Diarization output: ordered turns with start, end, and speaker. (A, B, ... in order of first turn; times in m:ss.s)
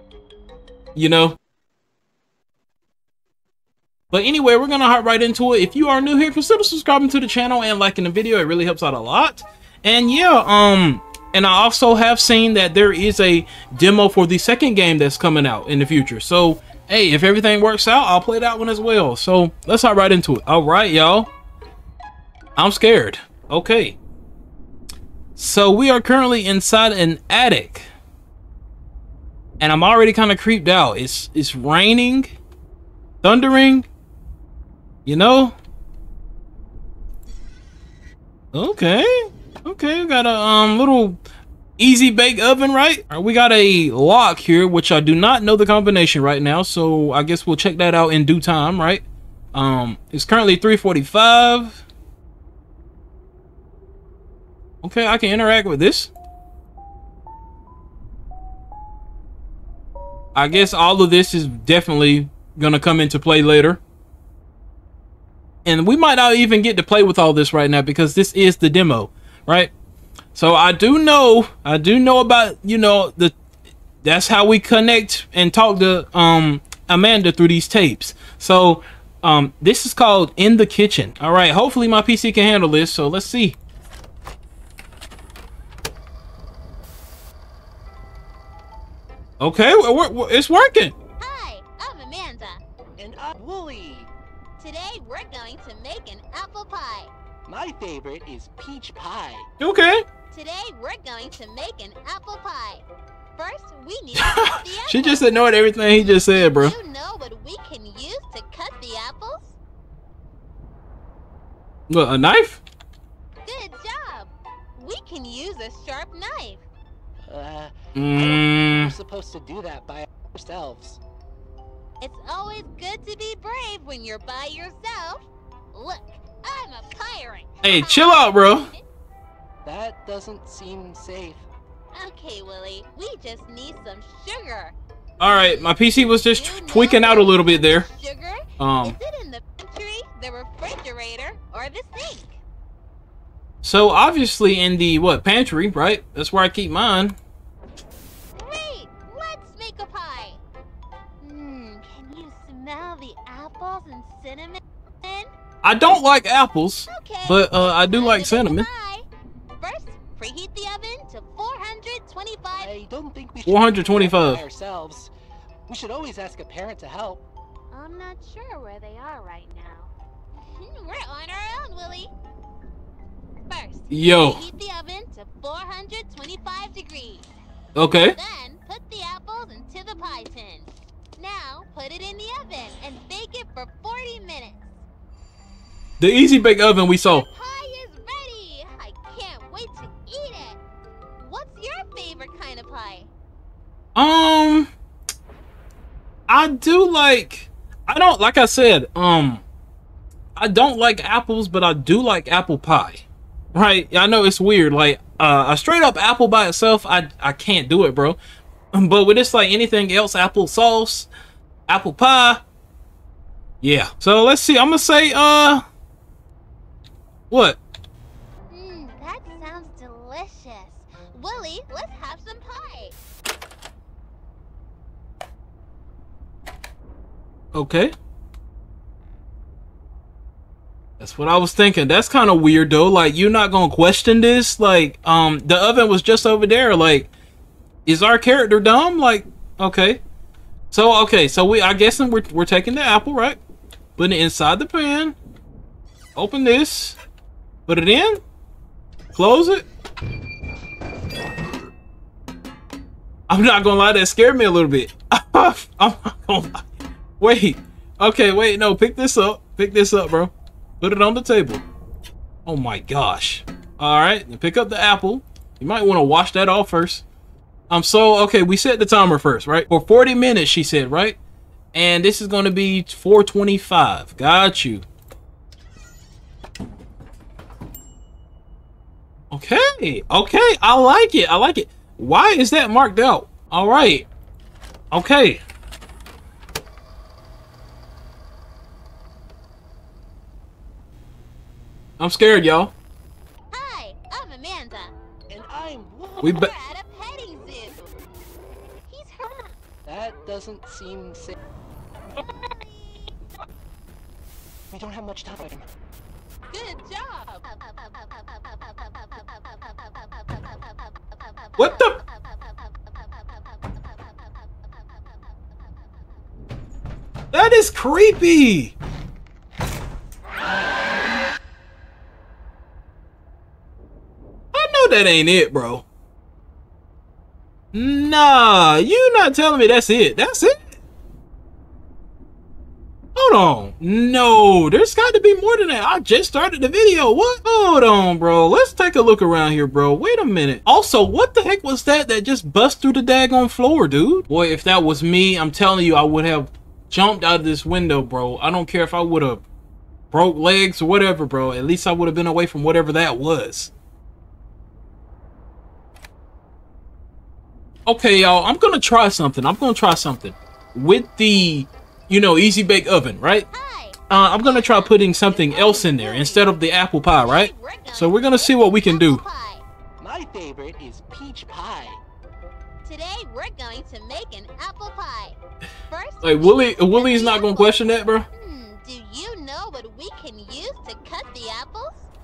0:01.0-0:01.4 A
0:04.1-0:21.3 A
0:22.6-0:24.0 A
0:25.4-0:27.9 A
0:29.6-0:32.3 A
0:33.2-0:33.9 A
0:35.1-0:35.6 A
0:38.5-0:41.2 A
0:41.8-0:51.8 A
0:54.8-0:56.1 A
1:00.3-1:03.8 A
1:05.6-1:09.7 A
1:10.3-1:13.3 A
1:14.0-1:23.6 A
1:29.4-1:30.9 A
1:31.2-1:32.6 B
1:33.0-1:34.1 C
1:34.6-1:37.1 B
1:37.5-1:39.5 C
1:39.6-1:40.0 A
1:40.3-1:42.8 B
1:43.4-1:45.3 B
1:44.2-1:46.8 A
1:45.9-1:49.6 B
1:51.9-1:52.6 A
1:53.4-1:56.6 B
1:57.2-2:01.0 C
1:57.9-1:58.9 A
2:02.0-2:08.8 B
2:07.6-2:08.7 A
2:09.6-2:11.5 C
2:11.9-2:22.4 B
2:15.2-2:17.9 A
2:18.6-2:19.0 A
2:23.6-2:27.2 A
2:28.4-2:30.4 B
2:31.2-2:35.3 B
2:35.6-2:38.7 A
2:36.9-2:39.1 B
2:39.6-2:42.7 B
2:42.6-2:45.1 C
2:43.5-2:44.4 A
2:45.7-2:47.2 C
2:47.7-2:52.1 B
2:53.5-2:57.3 B
2:53.9-2:54.4 A
2:57.8-2:58.2 A
2:58.1-3:04.7 B
3:06.0-3:07.2 A
3:07.0-3:10.6 B
3:11.2-3:13.1 B
3:13.9-3:14.7 A
3:16.3-3:19.4 A
3:20.4-3:28.2 A
3:28.7-3:31.1 A
3:31.7-3:32.4 A
3:33.6-3:35.6 A
3:37.3-3:37.6 A
3:38.5-3:42.9 B
3:47.5-3:47.9 A
3:51.0-3:57.1 A
3:57.9-4:00.0 A
4:00.7-4:03.4 A
4:04.0-4:05.2 A
4:06.2-4:07.0 A
4:07.7-4:08.2 A
4:09.1-4:09.7 A
4:13.3-4:16.7 A
4:17.2-4:21.6 A
4:22.4-4:27.0 A
4:27.7-4:31.2 A
4:31.7-4:34.9 A
4:39.3-4:44.1 A
4:44.9-4:45.4 A
4:52.0-4:52.7 A
4:53.5-4:54.9 B
4:55.3-4:56.3 C
4:56.2-4:57.9 B
4:56.2-4:56.5 A
4:58.9-4:59.5 B
4:59.9-5:01.4 C
5:02.1-5:03.1 B
5:04.7-5:05.7 C
5:06.5-5:15.4 B
5:11.6-5:12.0 A
5:17.3-5:18.7 A
5:24.5-5:25.8 A
5:27.7-5:30.6 A
5:33.1-5:49.4 A
5:50.1-5:53.7 A
5:57.9-6:03.5 A
6:03.5-6:06.6 B
6:04.1-6:09.2 A
6:07.2-6:09.6 B
6:10.0-6:12.0 C
6:12.8-6:15.4 B
6:15.9-6:22.1 B
6:16.2-6:18.2 A